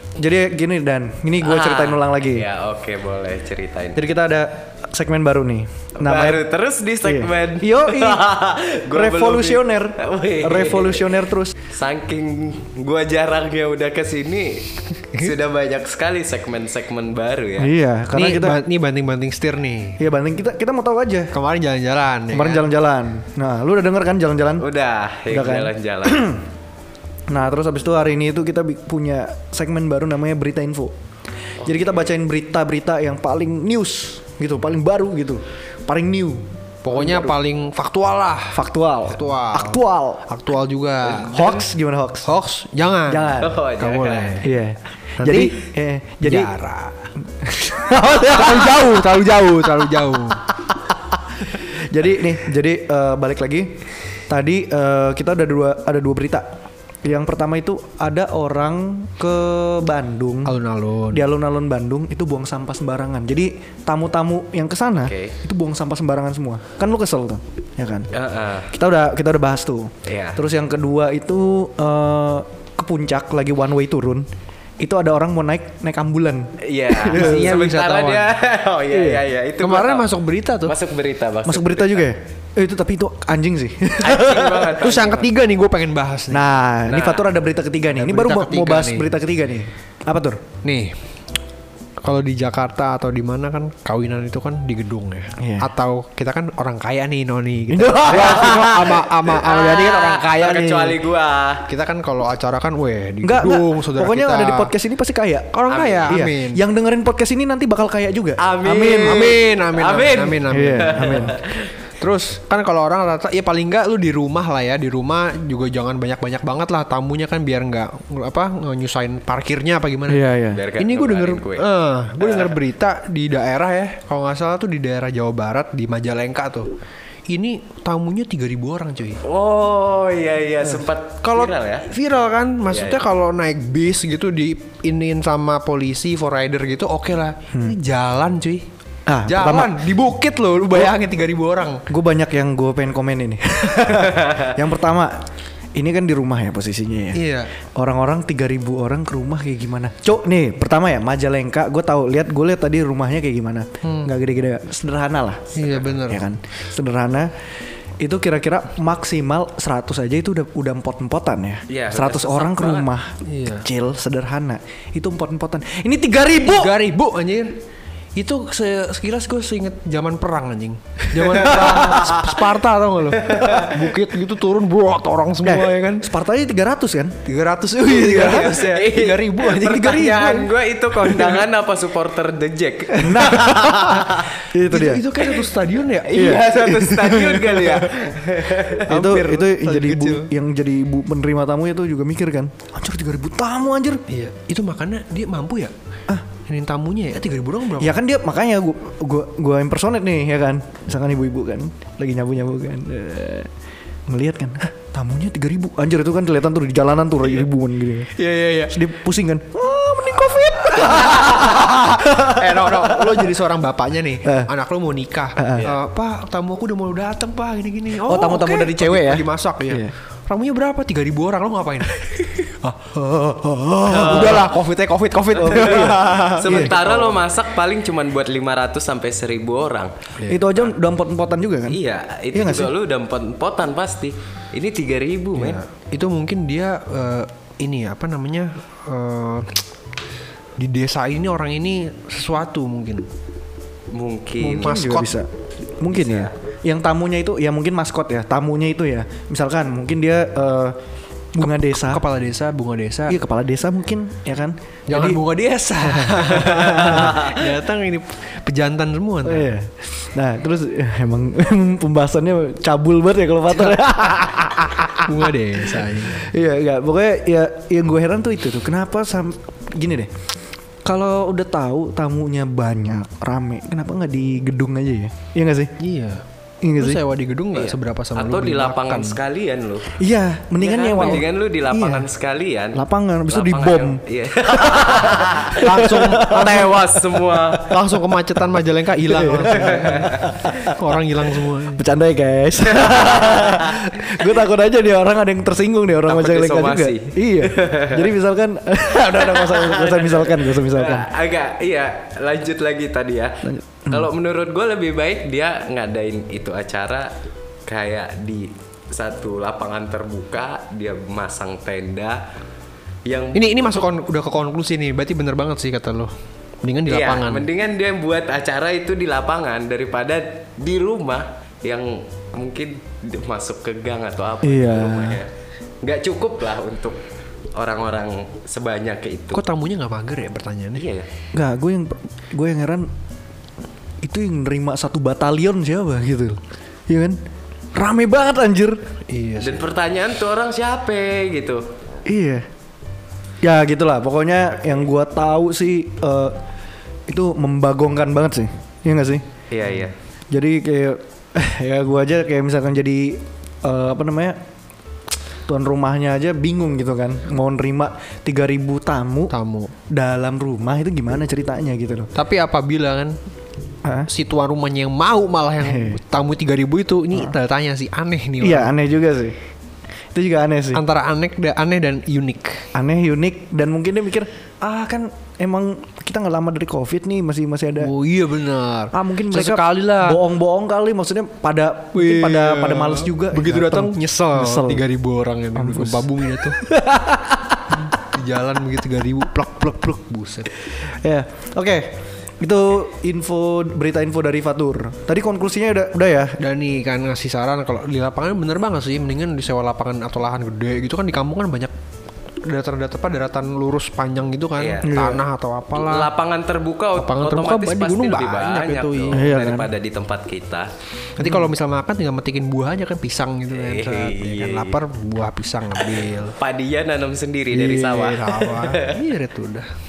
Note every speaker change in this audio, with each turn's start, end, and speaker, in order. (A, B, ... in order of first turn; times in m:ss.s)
0:00.2-0:02.5 A
0:01.4-0:04.0 B
0:04.0-0:06.4 A
0:06.0-0:17.7 B
0:07.0-0:08.3 A
0:08.9-0:11.6 A
0:17.6-0:18.6 A
0:18.1-0:20.0 C
0:20.0-0:21.3 A
0:21.3-0:22.7 C
0:22.3-0:24.7 A
0:24.6-0:26.4 B
0:25.3-0:26.4 A
0:27.3-0:30.9 A
0:31.6-0:37.3 A
0:31.6-0:31.9 B
0:36.8-0:41.5 C
0:38.5-0:40.2 A
0:41.2-0:42.3 A
0:42.2-0:44.5 C
0:43.0-0:43.6 A
0:43.4-0:44.5 B
0:44.4-0:46.5 A
0:45.2-0:45.7 C
0:46.2-0:47.0 C
0:47.2-0:49.0 A
0:48.0-0:50.5 C
0:51.5-0:53.7 A
0:54.3-0:56.5 A
0:57.0-1:00.6 A
1:00.4-1:01.3 C
1:01.1-1:08.1 A
1:05.0-1:05.4 B
1:08.1-1:08.7 B
1:08.7-1:14.3 A
1:10.0-1:10.4 B
1:14.8-1:17.5 A
1:16.6-1:22.1 B
1:17.1-1:18.3 C
1:18.9-1:19.2 A
1:19.6-1:20.7 C
1:21.4-1:24.6 A
1:24.0-1:25.3 B
1:24.6-1:26.5 C
1:26.3-1:30.4 A
1:26.9-1:27.3 B
1:27.9-1:29.1 C
1:30.6-1:30.9 C
1:32.0-1:40.9 C
1:35.4-1:35.7 A
1:37.7-1:38.7 A
1:38.1-1:41.6 B
1:41.7-1:44.7 C
1:43.2-1:49.4 A
1:45.5-1:46.6 C
1:45.7-1:46.2 B
1:48.4-1:51.7 B
1:49.0-1:51.5 C
1:50.5-1:51.4 A
1:52.0-2:06.7 C
2:00.1-2:00.6 A
2:00.5-2:01.6 B
2:02.2-2:02.6 B
2:07.3-2:09.2 C
2:09.2-2:11.9 B
2:11.2-2:18.7 C
2:12.7-2:13.0 B
2:17.5-2:17.8 A
2:19.1-2:19.9 A
2:19.2-2:21.9 C
2:21.9-2:25.2 A
2:24.2-2:24.5 B
2:25.7-2:27.2 A
2:27.1-2:27.5 C
2:27.7-2:37.3 A
2:33.8-2:34.1 C
2:35.5-2:36.3 C
2:38.0-2:46.8 A
2:41.7-2:42.9 B
2:43.2-2:43.7 C
2:46.4-2:47.6 C
2:48.2-2:56.1 C
2:51.2-2:52.2 A
2:51.6-2:52.2 B
2:53.3-2:53.7 B
2:55.4-2:57.2 A
2:57.2-3:00.5 C
2:57.9-3:04.2 B
3:02.9-3:05.1 A
3:03.3-3:04.1 C
3:04.6-3:08.2 C
3:06.0-3:08.9 B
3:06.1-3:07.2 A
3:08.7-3:10.3 C
3:08.8-3:14.0 A
3:14.1-3:15.7 C
3:16.4-3:18.0 C
3:17.8-3:23.5 A
3:24.1-3:28.1 A
3:28.1-3:28.8 C
3:28.7-3:33.2 A
3:30.7-3:42.8 C
3:34.2-3:34.5 A
3:35.4-3:35.7 A
3:38.0-3:39.9 A
3:42.6-3:44.4 A
3:43.8-3:47.2 C
3:45.4-3:46.8 A
3:45.6-3:49.9 B
3:50.3-3:51.8 A
3:51.7-3:55.6 B
3:52.3-3:52.7 A
3:55.4-3:59.6 C
4:00.6-4:03.1 C
4:03.9-4:04.8 B
4:04.4-4:05.3 A
4:04.6-4:05.1 C
4:05.8-4:10.8 A
4:05.9-4:06.3 B
4:11.3-4:12.0 A
4:11.4-4:13.2 C
4:13.1-4:15.2 A
4:14.9-4:19.5 C
4:15.8-4:17.3 A
4:19.2-4:30.1 A
4:25.0-4:26.3 C
4:30.8-4:35.7 A
4:35.8-4:36.2 C
4:36.6-4:37.0 A
4:36.8-4:39.2 C
4:37.5-4:40.0 B
4:39.9-4:42.1 A
4:40.6-4:47.8 B
4:42.7-4:44.0 A
4:44.6-4:46.7 A
4:45.5-4:46.7 C
4:47.6-4:51.8 C
4:49.0-4:50.8 A
4:49.5-4:50.3 B
4:51.8-5:01.1 A
4:52.7-4:54.2 B
4:56.0-4:58.1 B
4:59.0-5:07.1 B
5:03.4-5:04.1 A
5:07.7-5:12.2 B
5:13.0-5:13.8 B
5:13.3-5:16.1 C
5:16.6-5:17.5 C
5:16.9-5:25.3 B
5:24.4-5:25.2 A
5:25.8-5:27.0 B
5:27.5-5:29.4 B
5:29.3-5:30.8 C
5:30.8-5:31.1 B
5:31.3-5:32.9 A
5:34.0-5:37.2 A
5:37.7-5:38.8 A
5:39.1-5:39.6 C
5:39.4-5:41.7 B
5:42.0-5:42.5 A
5:43.4-5:46.4 A
5:47.1-5:49.2 A
5:49.5-5:49.9 B
5:50.3-5:54.4 A
5:55.5-5:59.3 A
5:59.3-5:59.7 C
5:59.9-6:02.1 A
6:02.1-6:03.2 C
6:04.0-6:08.7 C
6:05.6-6:06.0 A
6:08.4-6:09.4 A
6:10.1-6:10.8 A
6:10.7-6:12.7 C
6:12.7-6:17.9 A
6:17.8-6:20.2 C
6:18.9-6:24.8 A
6:21.9-6:30.5 C
6:25.6-6:26.1 A
6:30.8-6:36.4 A
6:36.4-6:41.7 C
6:42.4-6:46.1 C
6:44.6-6:45.0 B
6:44.8-6:45.2 A
6:45.7-6:50.7 B
6:47.0-6:49.4 C
6:49.1-6:49.7 A
6:51.2-6:56.3 C
6:53.5-6:54.8 B
6:55.9-6:58.9 B
6:57.5-6:59.7 C